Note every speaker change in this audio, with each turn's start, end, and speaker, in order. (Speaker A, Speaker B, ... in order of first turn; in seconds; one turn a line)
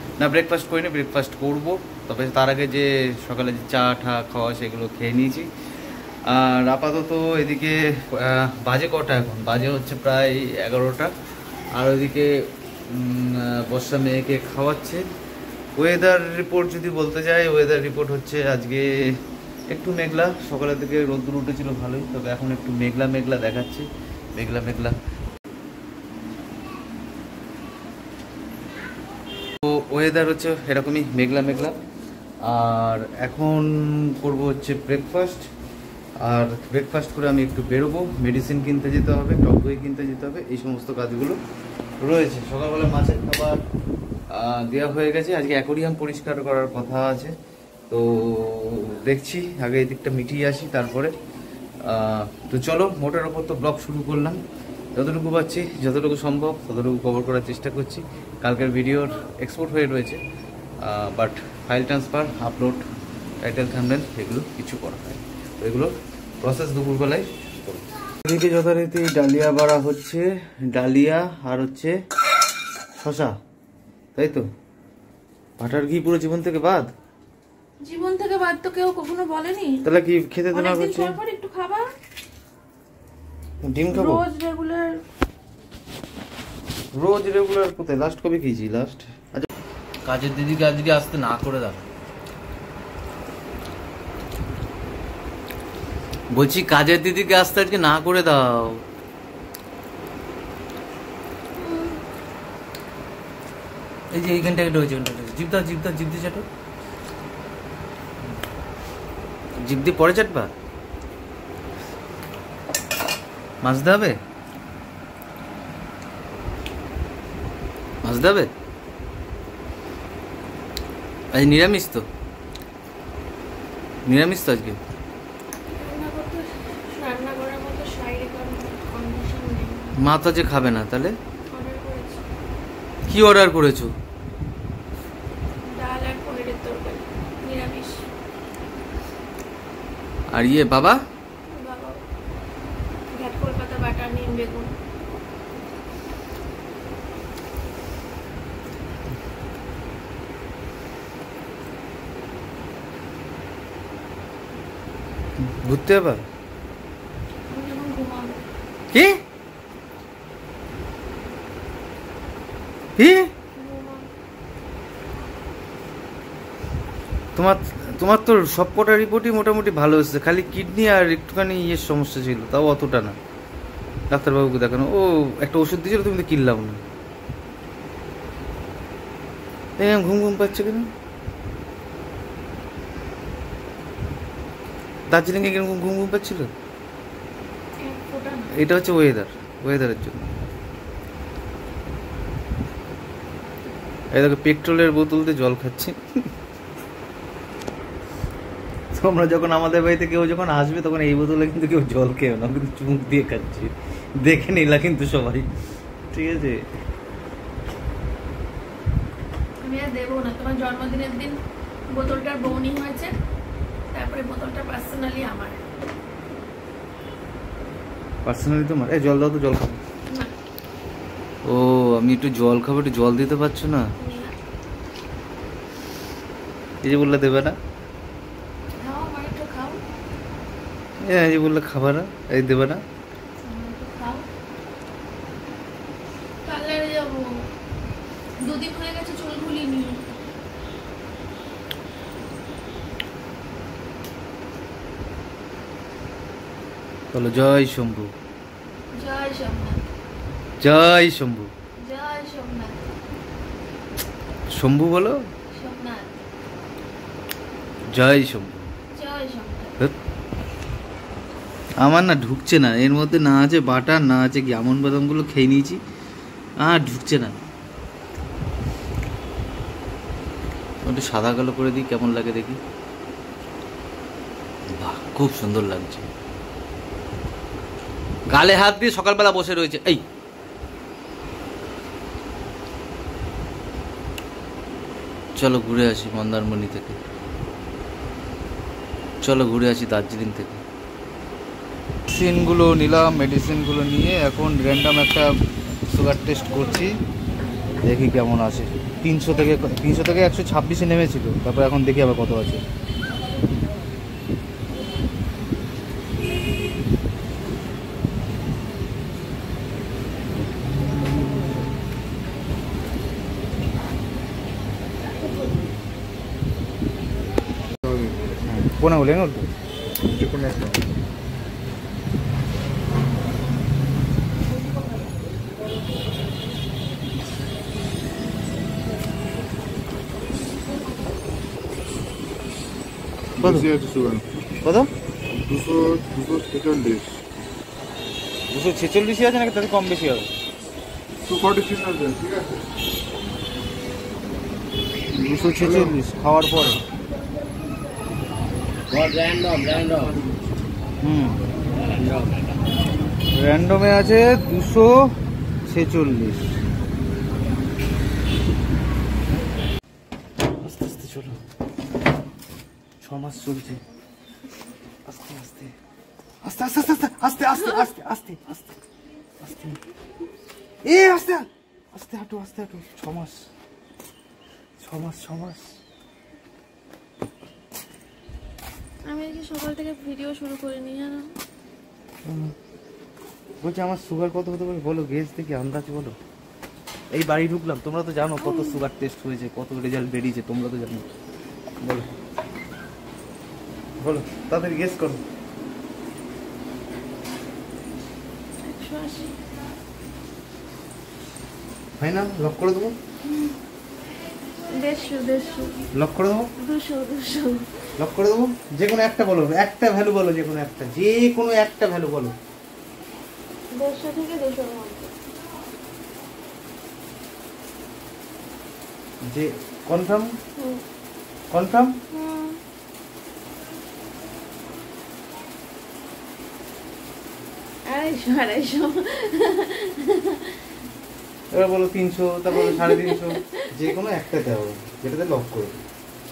Speaker A: 0.2-5.5
Speaker A: 6.2-11.1
Speaker A: 11.7-12.3
Speaker A: 12.9-15.0
Speaker A: 15.8-24.9
Speaker A: 29.6-31.8
Speaker A: 32.4-35.5
Speaker A: 36.2-41.4
Speaker A: 42.0-43.6
Speaker A: 44.3-47.3
Speaker A: 47.9-51.1
Speaker A: 51.8-54.4
Speaker A: 54.9-60.2
Speaker A: 60.8-62.8
Speaker A: 63.4-72.0
Speaker A: 73.0-73.3
Speaker A: 74.2-74.5
Speaker A: 75.6-76.9
Speaker B: 77.8-79.8
Speaker A: 79.8-81.2
Speaker B: 80.5-81.9
Speaker A: 83.6-84.2
Speaker B: 83.9-85.0
Speaker A: 86.9-89.5
Speaker A: 90.0-91.8
Speaker A: 96.3-98.8
Speaker B: 101.6-102.0
Speaker A: 104.1-106.5
Speaker A: 109.6-110.5
Speaker A: 113.6-114.2
Speaker A: 118.0-118.5
Speaker A: 121.3-122.0
Speaker A: 124.0-124.8
Speaker B: 125.7-130.0
Speaker A: 130.0-131.2
Speaker B: 131.5-132.2
Speaker A: 133.1-133.9
Speaker B: 135.6-138.0
Speaker A: 140.3-141.0
Speaker B: 141.5-142.0
Speaker B: 143.1-144.7
Speaker A: 155.4-156.2
Speaker B: 157.5-158.4
Speaker A: 158.9-159.2
Speaker A: 163.0-163.3
Speaker B: 163.5-164.1
Speaker A: 167.3-173.2
Speaker A: 174.1-176.8
Speaker A: 179.8-180.9
Speaker A: 185.1-186.5
Speaker B: 187.8-188.5
Speaker A: 188.5-190.5
Speaker A: 194.1-196.0
Speaker A: 198.9-205.5
Speaker A: 206.1-206.6
Speaker B: 209.6-211.4
Speaker B: 211.9-213.1
Speaker B: 213.9-215.6
Speaker A: 218.2-219.8
Speaker B: 220.1-220.3
Speaker A: 221.4-223.9
Speaker B: 224.0-224.3
Speaker A: 226.8-227.6
Speaker B: 228.7-229.8
Speaker A: 231.0-232.8
Speaker B: 233.4-234.2
Speaker B: 236.4-237.5
Speaker B: 238.4-240.1
Speaker A: 247.1-248.1
Speaker B: 248.9-249.9
Speaker A: 250.6-251.5
Speaker B: 251.8-252.9
Speaker A: 254.5-255.2
Speaker B: 255.5-256.2
Speaker A: 257.9-258.7
Speaker B: 258.9-259.8
Speaker A: 261.8-265.8
Speaker A: 266.6-267.4
Speaker A: 270.8-272.6
Speaker A: 274.7-276.1
Speaker A: 278.3-280.0
Speaker A: 285.4-287.0
Speaker A: 289.2-290.6
Speaker A: 292.1-295.3
Speaker A: 295.9-296.9
Speaker A: 297.8-302.6
Speaker A: 310.8-311.7
Speaker C: 317.8-318.2
Speaker A: 318.4-319.5
Speaker C: 320.1-320.9
Speaker C: 333.4-334.2
Speaker A: 333.4-333.7
Speaker A: 334.6-334.9
Speaker C: 335.4-337.2
Speaker A: 338.5-340.3
Speaker C: 341.2-342.6
Speaker A: 345.2-346.8
Speaker C: 345.2-345.9
Speaker C: 349.6-350.2
Speaker A: 351.0-351.4
Speaker A: 353.3-355.1
Speaker A: 355.6-356.4
Speaker A: 360.6-361.4
Speaker A: 363.0-363.8
Speaker A: 365.1-365.7
Speaker A: 366.4-368.7
Speaker A: 369.4-369.8
Speaker A: 370.8-373.5
Speaker A: 374.8-375.8
Speaker B: 379.1-381.4
Speaker A: 382.2-382.5
Speaker A: 383.6-386.2
Speaker A: 387.1-391.1
Speaker B: 388.4-388.8
Speaker A: 391.8-392.1
Speaker A: 394.0-395.2
Speaker B: 398.6-399.4
Speaker A: 402.0-402.9
Speaker B: 403.2-403.6
Speaker B: 404.7-405.9
Speaker A: 405.9-406.5
Speaker B: 406.6-407.7
Speaker A: 408.0-412.3
Speaker B: 413.7-415.1
Speaker A: 419.2-420.3
Speaker B: 420.6-420.8
Speaker A: 421.5-421.9
Speaker B: 422.1-422.6
Speaker B: 427.9-430.7
Speaker A: 431.5-435.8
Speaker B: 432.5-433.7